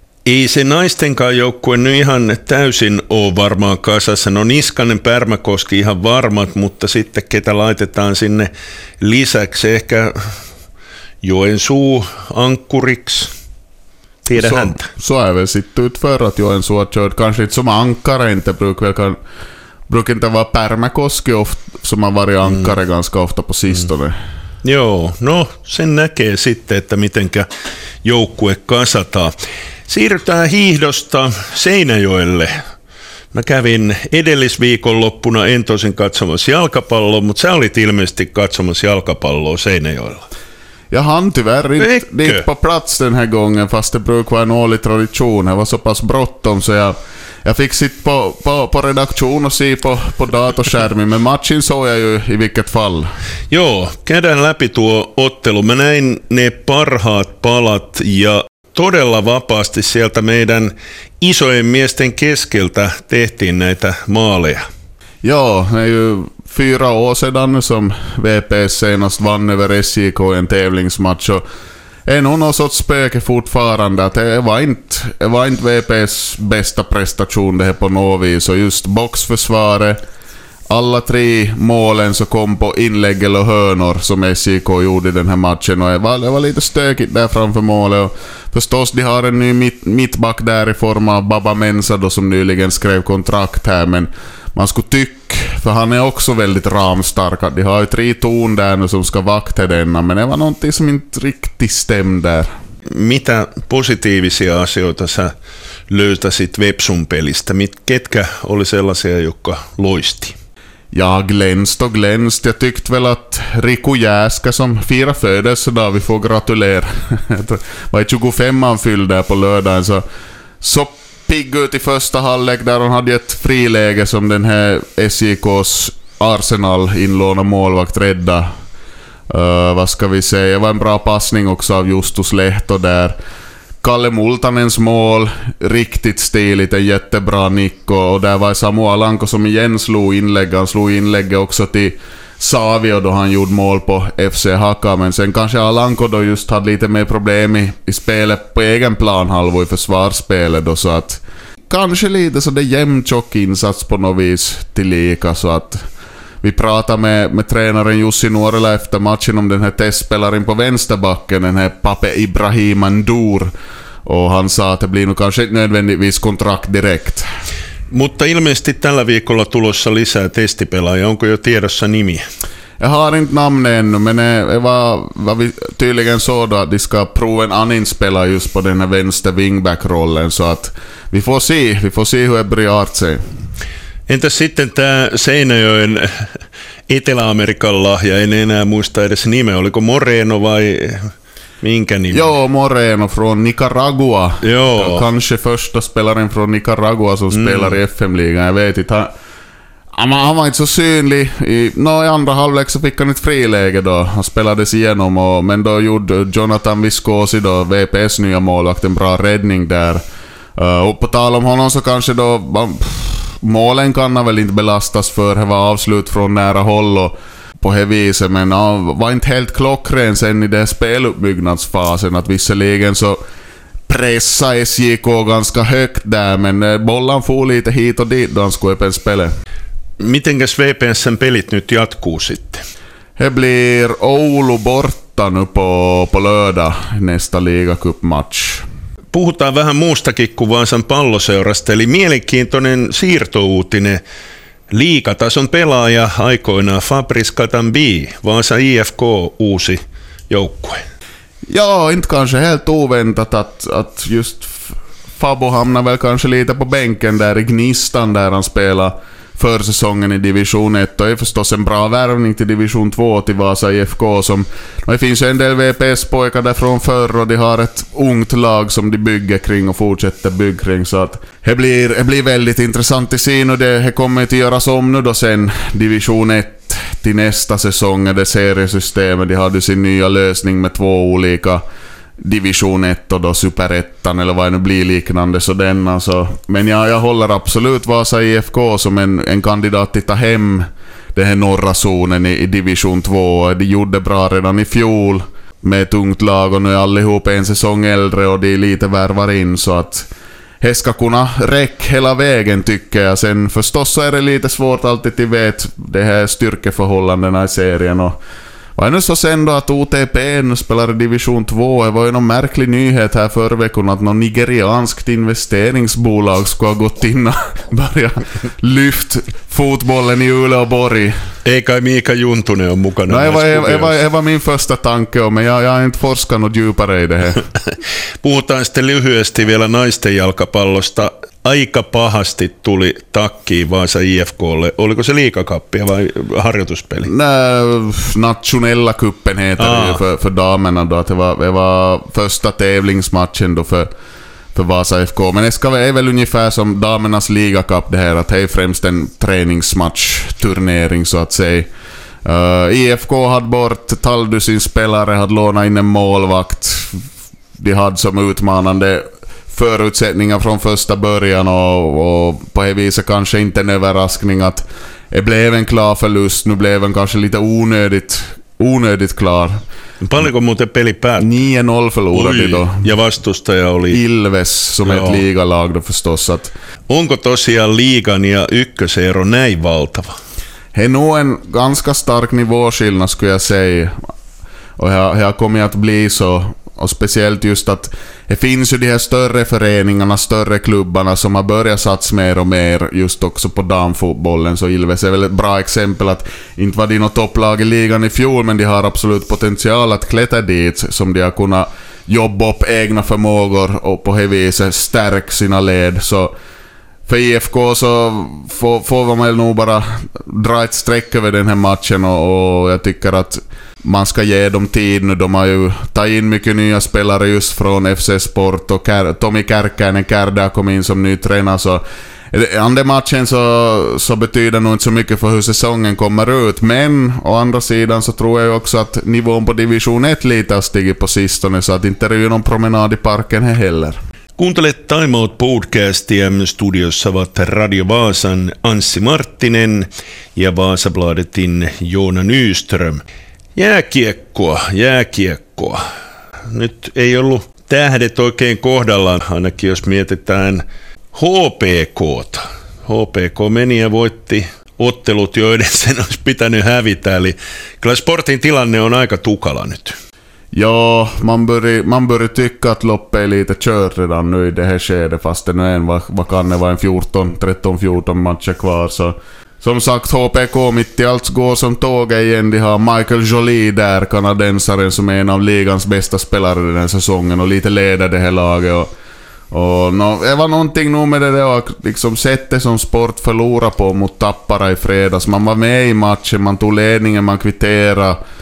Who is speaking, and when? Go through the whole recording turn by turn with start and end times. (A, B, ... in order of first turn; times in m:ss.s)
0:00.2-0:10.3 A
0:11.2-0:13.3 A
0:14.2-0:14.9 A
0:14.4-0:19.2 B
0:19.9-0:24.1 B
0:24.6-0:27.5 A
0:28.0-0:29.3 A
0:29.9-0:32.5 A
0:33.3-0:40.2 A
0:40.9-0:53.1 B
0:41.8-0:42.4 A
0:53.5-1:04.6 A
1:05.2-1:11.4 B
1:12.1-1:20.0 B
1:20.7-1:42.5 B
1:42.9-1:45.3 A
1:45.9-1:50.4 A
1:50.9-2:00.0 B
2:00.6-2:08.5 B
2:09.3-2:13.1 B
2:13.8-2:35.8 B
2:36.4-2:43.5 B
2:44.0-2:47.2 B
2:47.9-2:52.2 A
2:52.8-3:03.2 B
3:04.1-3:06.4 A
3:06.9-3:12.3 A
3:12.1-3:19.1 B
3:14.4-3:15.0 A
3:17.3-3:17.8 A
3:19.9-3:30.0 B
3:30.6-3:43.2 B
3:43.9-3:49.3 B
3:50.0-3:52.6 A
3:53.2-3:58.6 B
3:59.1-4:04.0 A
4:04.7-4:10.8 A
4:11.5-4:41.6 B
4:42.2-5:00.1 B
5:00.6-5:08.2 B
5:08.8-5:21.1 B
5:21.4-5:24.0 A
5:23.1-5:27.4 B
5:28.2-5:37.1 A
5:37.0-5:43.9 B
5:39.6-5:40.0 A
5:44.5-5:51.7 B
5:52.2-5:57.0 B
5:57.6-6:09.6 B
6:10.0-6:11.3 A
6:11.2-6:12.9 B
6:12.1-6:14.0 A
6:13.9-6:16.5 B
6:14.8-6:15.2 A
6:16.9-6:20.2 A
6:20.7-6:24.0 B
6:24.8-6:46.3 B
6:47.1-7:14.0 B
7:14.4-7:23.0 A
7:23.5-7:25.8 A
7:26.5-7:40.0 A
7:40.5-7:58.9 B
7:59.5-8:08.2 B